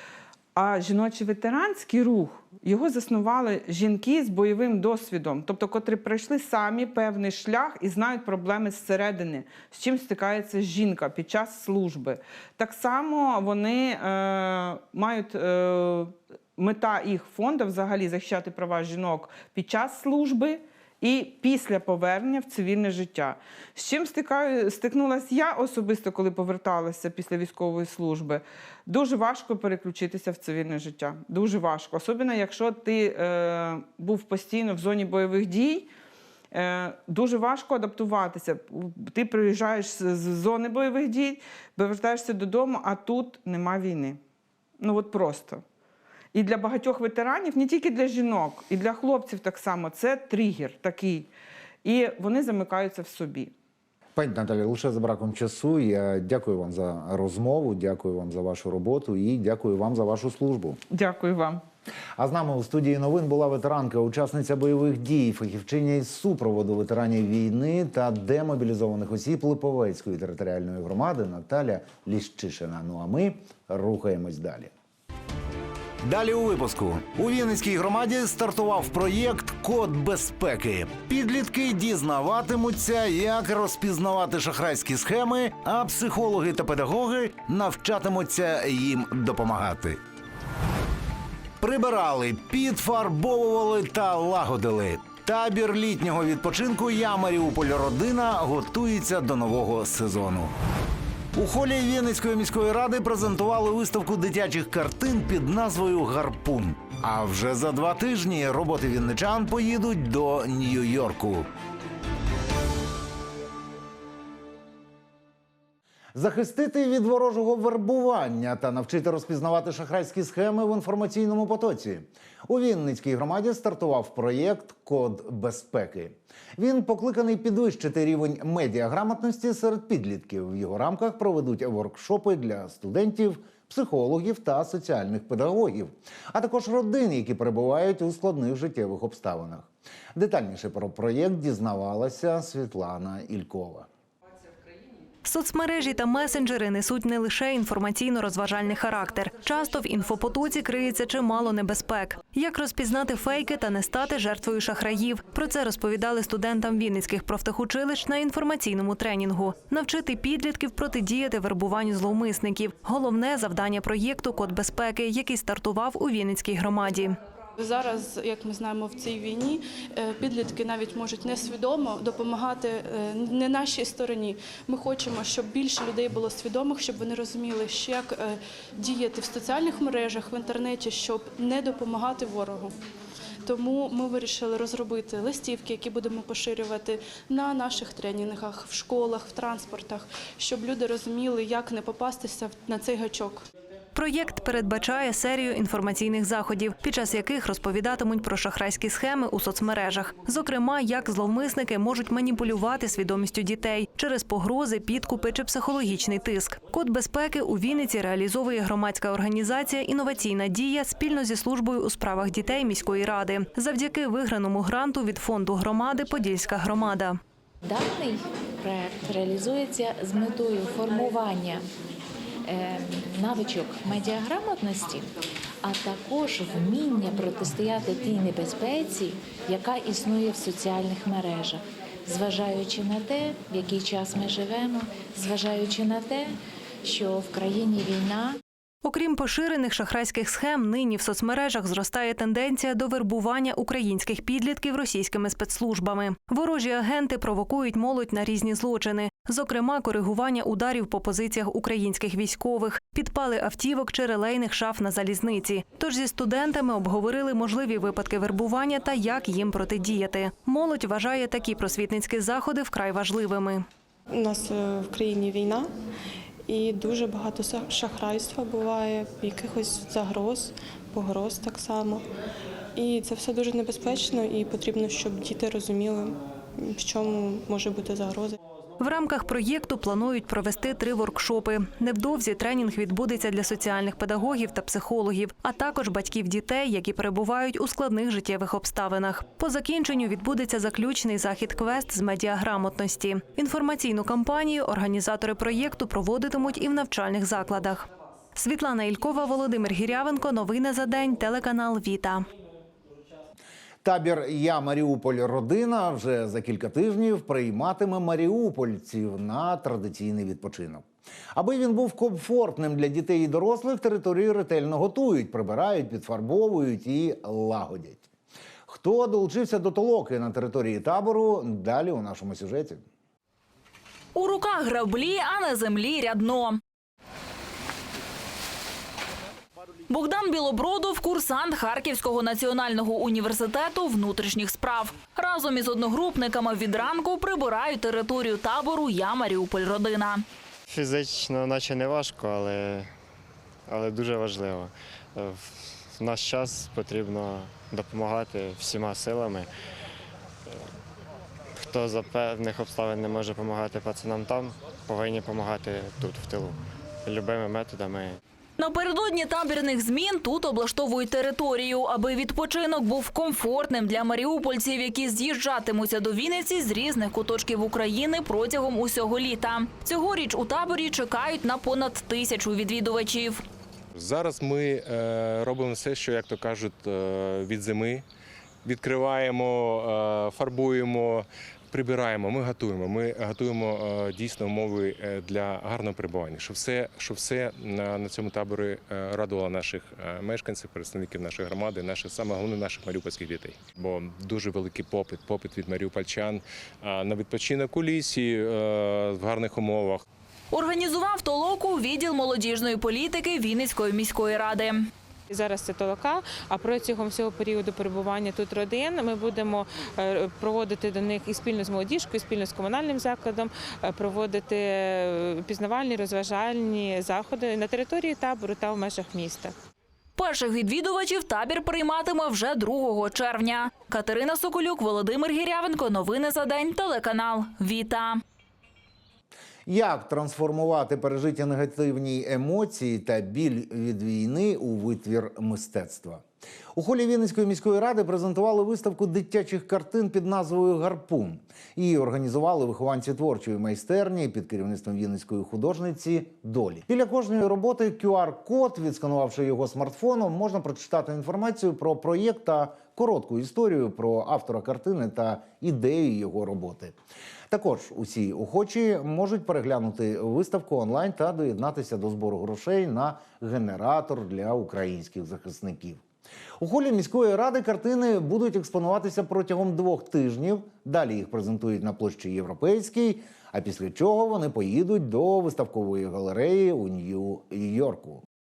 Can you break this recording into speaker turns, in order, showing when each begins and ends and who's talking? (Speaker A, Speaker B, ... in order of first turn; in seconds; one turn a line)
Speaker A: 0.6-35.9
Speaker A: 36.5-44.2
Speaker A: 44.8-45.6
Speaker A: 46.3-51.3
Speaker A: 51.8-53.5
Speaker B: 54.2-60.8
Speaker A: 60.9-61.6
Speaker B: 62.2-74.7
Speaker B: 76.0-90.0
Speaker B: 91.6-100.5
Speaker B: 101.3-111.5
Speaker B: 116.2-143.9
Speaker C: 145.3-167.2
Speaker D: 167.6-182.7
Speaker D: 183.5-193.4
Speaker C: 193.9-217.2
Speaker E: 217.6-221.7
Speaker E: 222.4-225.1
Speaker E: 225.6-238.4
Speaker C: 238.8-263.6
Speaker F: 264.1-265.7
Speaker F: 266.5-272.1
Speaker F: 272.8-278.4
Speaker C: 278.8-302.3
Speaker B: 303.8-318.1
Speaker B: 318.7-322.8
Speaker G: 324.1-326.6
Speaker G: 329.9-340.2
Speaker H: 340.7-342.9
Speaker H: 343.7-349.5
Speaker H: 351.6-358.2
Speaker G: 358.6-373.4
Speaker I: 373.9-378.0
Speaker I: 378.6-400.0
Speaker G: 400.5-404.9
Speaker J: 405.3-419.5
Speaker G: 420.2-428.2
Speaker B: 429.7-436.2
Speaker B: 436.8-456.9
Speaker B: 457.5-466.0
Speaker B: 466.6-478.2